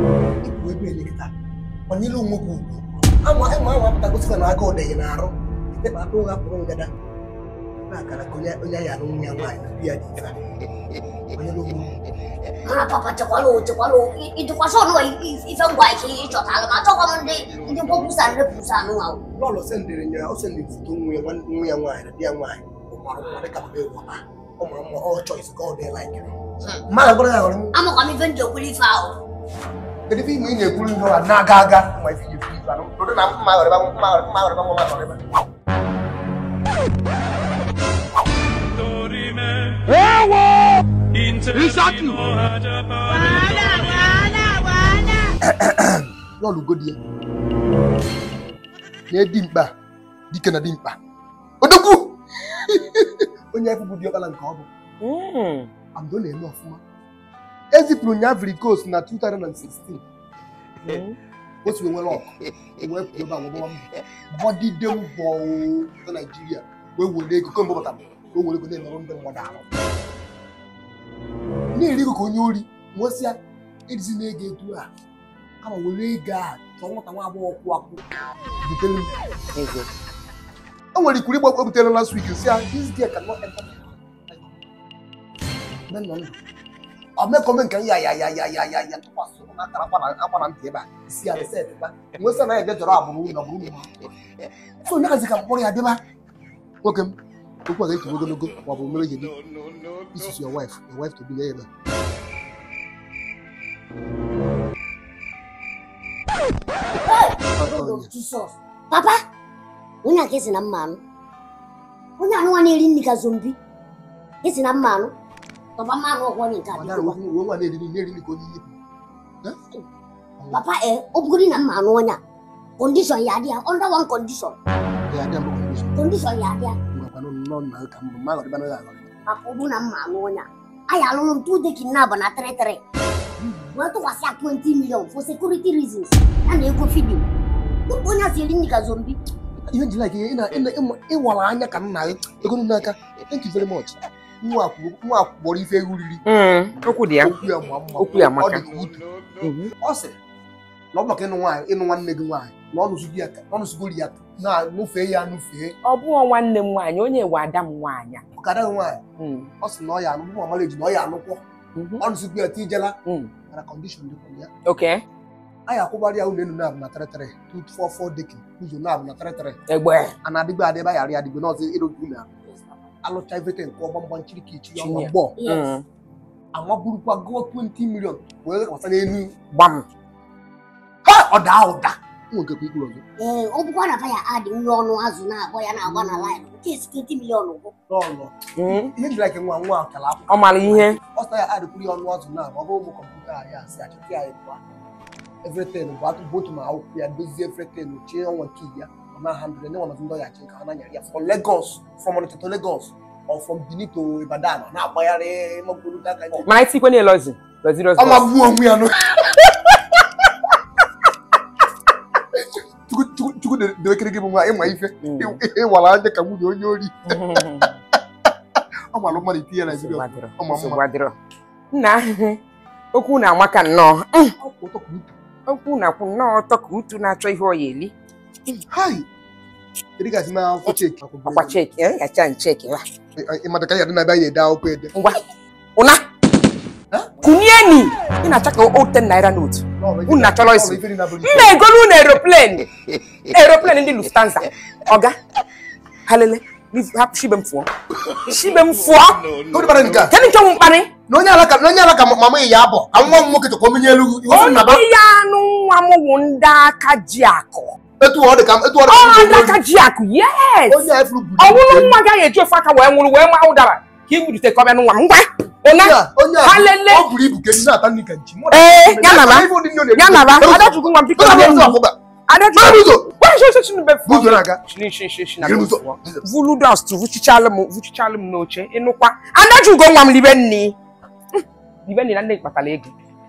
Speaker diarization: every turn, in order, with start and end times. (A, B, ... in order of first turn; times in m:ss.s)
0:00.4-0:01.3 A
0:01.9-0:06.9 A
0:07.9-0:10.3 A
0:11.3-0:12.0 A
0:12.6-0:19.2 B
0:19.3-0:26.3 A
0:26.8-0:27.7 A
0:27.7-0:29.1 B
0:30.1-0:35.2 A
0:41.5-0:42.0 A
0:45.4-0:47.0 A
0:49.1-0:49.7 A
0:50.3-0:51.0 A
0:51.6-0:54.7 A
0:55.0-0:55.7 C
0:55.9-0:56.8 A
0:57.7-1:00.0 A
1:00.8-1:01.2 C
1:01.6-1:09.6 A
1:11.7-1:13.4 A
1:13.9-1:14.9 A
1:15.6-1:18.0 A
1:18.6-1:19.1 A
1:19.5-1:19.9 C
1:20.9-1:24.6 A
1:25.9-1:26.4 A
1:27.2-1:33.9 A
1:34.8-1:36.0 A
1:36.8-1:37.2 A
1:37.7-1:39.4 A
1:40.1-1:41.7 A
1:47.0-1:49.2 B
1:47.6-1:48.1 A
1:50.0-1:51.0 B
1:52.2-1:53.6 B
1:54.4-1:55.1 B
1:55.8-1:57.2 B
1:56.7-1:58.8 A
2:00.5-2:02.2 B
2:02.8-2:04.6 B
2:05.1-2:06.0 A
2:05.9-2:06.8 B
2:06.9-2:09.1 A
2:09.3-2:12.8 B
2:13.4-2:13.8 A
2:13.7-2:17.2 B
2:17.9-2:19.2 B
2:19.7-2:26.2 A
2:26.2-2:27.3 C
2:26.8-2:29.1 A
2:28.0-2:28.7 C
2:29.4-2:29.7 C
2:29.8-2:30.2 A
2:30.9-2:35.8 A
2:35.8-2:38.2 C
2:38.3-2:39.0 A
2:39.2-2:39.5 C
2:39.6-2:41.4 A
2:41.8-2:42.0 C
2:42.0-2:43.0 A
2:43.0-2:43.3 C
2:43.5-2:44.5 A
2:44.6-2:45.0 C
2:45.7-2:49.6 A
2:49.7-2:50.2 C
2:50.2-2:55.4 A
2:54.8-2:55.8 C
2:55.4-2:55.7 B
2:56.5-2:59.4 A
2:59.5-2:59.8 C
3:01.0-3:03.0 A
3:03.2-3:07.7 B
3:05.8-3:06.3 A
3:07.9-3:14.6 A
3:08.5-3:08.9 C
3:10.3-3:11.0 C
3:15.4-3:26.4 A
3:26.4-3:28.3 C
3:28.0-3:29.2 A
3:32.3-3:37.4 A
3:35.0-3:35.4 C
3:37.1-3:37.8 C
3:38.9-3:40.8 A
3:39.1-3:41.2 C
3:41.7-3:42.4 C
3:42.9-3:44.3 C
3:44.4-3:45.1 A
3:45.5-3:47.9 C
3:48.7-3:49.0 A
3:50.0-3:51.6 A
3:51.3-3:52.8 C
3:53.1-3:54.9 A
3:54.9-3:55.2 C
3:55.8-3:56.0 C
3:57.2-4:02.7 C
3:59.8-4:01.6 A
4:03.3-4:05.1 C
4:06.1-4:09.4 C
4:09.5-4:10.1 A
4:10.1-4:10.9 C
4:11.1-4:14.9 A
4:14.3-4:17.7 C
4:18.0-4:19.6 A
4:18.9-4:27.1 C
4:20.7-4:22.0 A
4:25.7-4:32.0 A
4:28.5-4:40.8 C
4:32.6-4:33.1 A
4:34.0-4:34.6 A
4:35.4-4:36.2 A
4:41.3-4:42.9 C